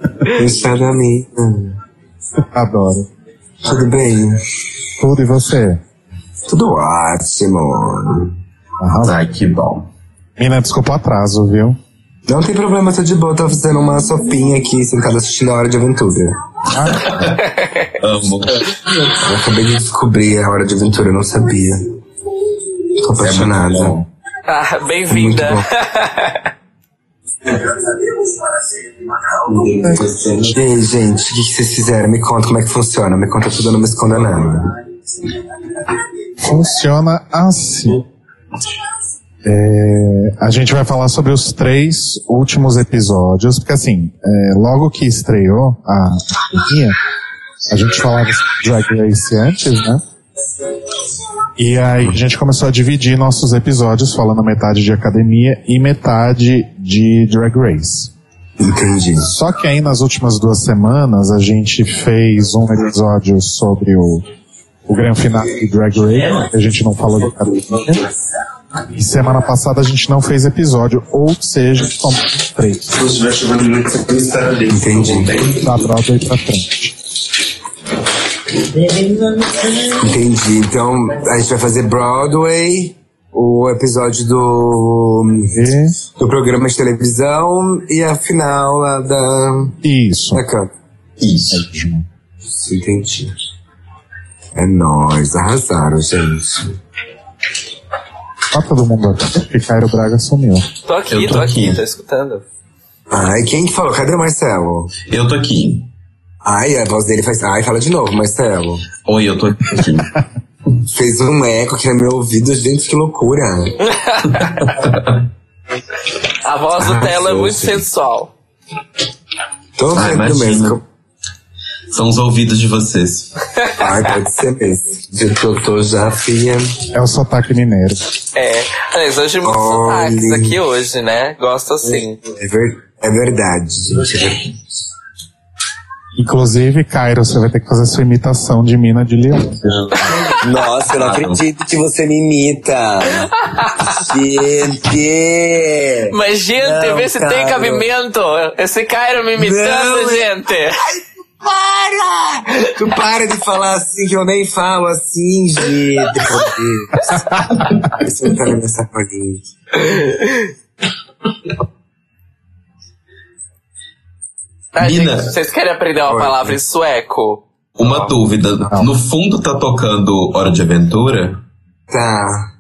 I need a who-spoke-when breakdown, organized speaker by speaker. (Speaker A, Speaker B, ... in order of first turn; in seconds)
Speaker A: 0.3-1.8, 3.6-4.4, 6.5-8.3, 12.3-16.4, 19.1-22.0, 23.0-24.0, 25.1-25.6, 27.5-28.2, 29.4-34.8, 58.6-59.4, 74.7-75.4, 80.0-89.8, 90.3-90.7, 92.5-93.3, 94.6-96.7, 103.1-104.9, 106.4-108.8, 110.8-113.8, 116.8-117.8, 119.8-120.8, 123.8-126.8, 129.4-130.6, 132.4-134.6, 140.0-147.9, 149.4-157.2, 157.9-159.8, 166.1-166.6, 171.9-172.5
Speaker B: 2.4-3.1, 5.0-5.8, 8.8-9.2, 10.4-11.8, 16.7-17.4, 36.4-38.0, 39.4-47.0, 47.7-50.0, 51.6-58.1, 59.3-64.2, 64.9-68.1, 68.9-73.0, 75.4-76.9, 85.5-86.0, 89.8-90.4, 91.5-92.0, 98.5-100.7, 126.9-128.0, 136.2-139.6, 168.6-168.9
Speaker C: 9.0-9.9, 16.9-17.4, 18.0-18.7, 23.2-24.0, 73.0-75.7, 91.2-91.6, 101.1-101.8, 105.1-105.9, 109.0-110.1, 114.4-115.2, 119.9-120.8, 121.9-123.3, 140.9-141.4, 164.8-165.3, 167.8-171.4
Speaker D: 17.4-17.9, 24.5-26.5, 100.8-102.4, 113.9-114.6, 116.4-118.3, 123.6-124.0, 128.3-132.2, 146.1-150.8, 164.8-167.4